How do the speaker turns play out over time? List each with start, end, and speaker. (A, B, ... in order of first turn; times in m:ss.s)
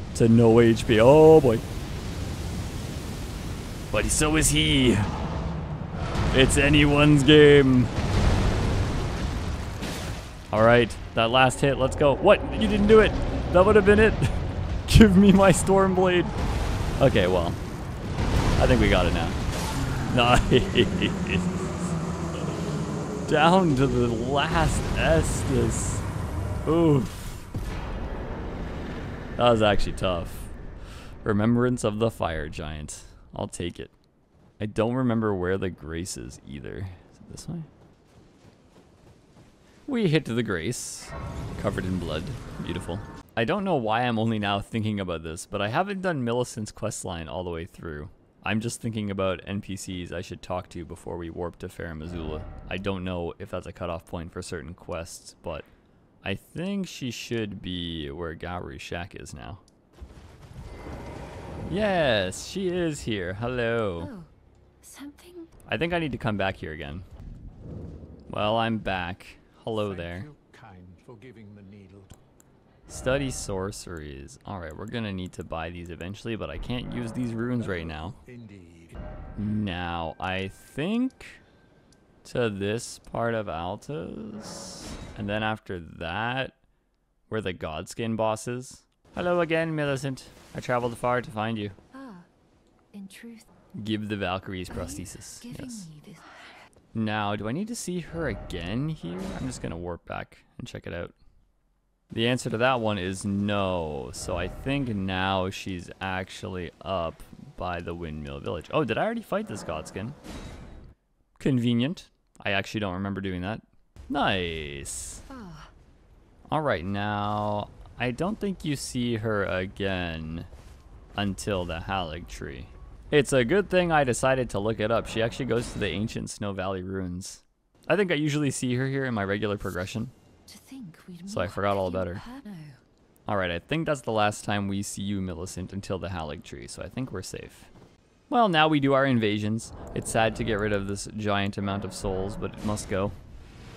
0:00.1-0:01.6 A
0:03.9-0:05.1 A
0:06.3-0:07.9 A
0:10.5-0:16.3 A
0:17.0-0:17.6 A
0:18.6-0:19.4 A
0:20.1-0:22.0 A
0:23.3-0:26.0 A
0:26.7-0:27.3 A
0:29.4-0:30.6 A
0:31.2-0:33.9 A
0:34.6-0:37.7 A
0:39.9-0:55.7 A
0:56.2-0:59.6 A
1:01.7-1:04.1 A
1:04.0-1:04.3 B
1:04.8-1:05.5 B
1:05.7-1:07.1 A
1:08.3-1:10.3 A
1:09.7-1:12.2 C
1:12.9-1:18.2 A
1:17.6-1:19.0 C
1:19.4-1:21.4 A
1:22.2-1:26.6 A
1:27.3-1:31.8 A
1:31.9-1:32.3 B
1:32.9-1:33.5 B
1:33.7-1:35.9 A
1:34.7-1:36.7 B
1:36.9-1:41.2 A
1:42.1-1:50.2 A
1:51.4-1:55.2 A
1:55.3-1:55.7 B
1:56.5-2:00.5 A
2:01.2-2:10.1 A
2:10.5-2:12.8 B
2:11.3-2:12.2 A
2:13.3-2:17.7 A
2:18.3-2:23.2 A